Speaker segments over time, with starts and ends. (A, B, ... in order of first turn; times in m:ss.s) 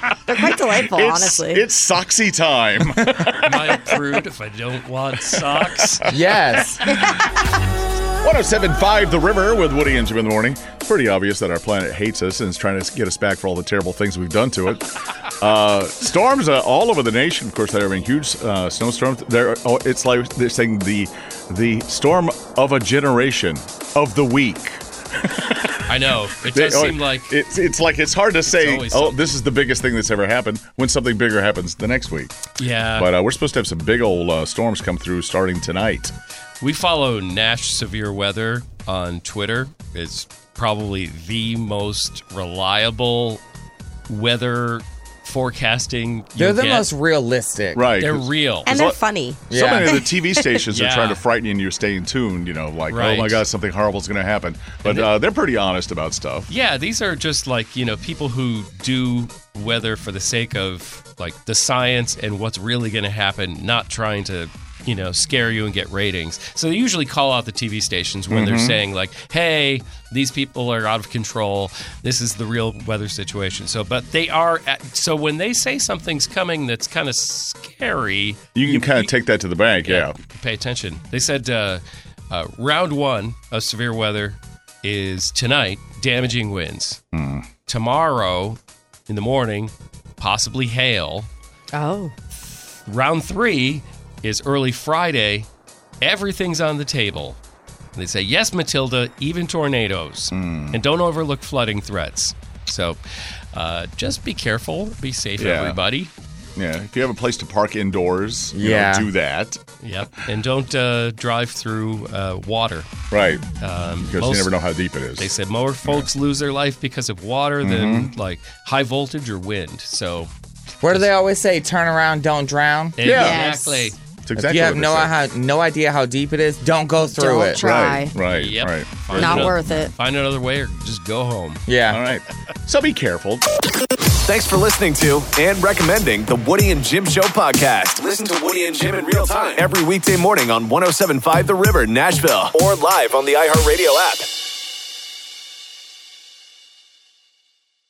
0:00.2-0:01.6 A
0:00.7-0:04.0 B
0:03.4-0:06.1 C
0:05.6-0:05.9 B
0:06.1-0:07.0 D
0:06.8-0:07.3 B
0:08.2-0:14.8 B
0:15.4-0:25.8 B
0:25.9-0:27.4 C
0:26.5-0:36.1 B
0:28.4-0:29.2 C
0:32.6-0:33.1 C
0:36.6-0:43.4 C
0:44.1-0:46.9 C
0:46.4-0:48.0 D
0:47.7-0:49.0 B
0:48.0-0:48.7 C
0:48.6-0:50.5 A
0:49.5-0:49.9 D
0:49.5-0:56.5 B
0:50.7-0:51.2 C
0:52.9-0:53.4 C
0:54.8-0:55.1 C
0:56.5-1:19.1 C
1:08.3-1:08.8 B
1:18.5-1:20.2 B
1:19.8-1:27.0 C
1:27.1-1:27.5 B
1:27.7-1:31.3 C
1:31.7-1:32.1 A
1:32.9-1:35.5 C
1:36.0-1:37.4 C
1:37.9-1:43.0 C
1:40.3-1:40.8 B
1:43.5-1:46.1 C
1:45.4-1:45.8 B
1:46.6-1:49.6 B
1:48.5-1:49.1 D
1:49.8-1:52.9 C
1:53.1-1:53.4 B
1:53.6-1:54.6 C
1:54.0-1:55.3 B
1:55.2-2:00.3 C
1:57.6-1:58.1 B
2:00.8-2:03.0 D
2:03.0-2:04.0 C
2:03.0-2:03.4 B
2:03.1-2:03.9 A
2:04.2-2:05.1 B
2:04.4-2:07.6 D
2:07.1-2:08.1 A
2:07.6-2:09.6 B
2:08.3-2:11.6 C
2:09.1-2:09.9 A
2:11.7-2:12.0 D
2:11.9-2:13.4 B
2:14.2-2:24.3 E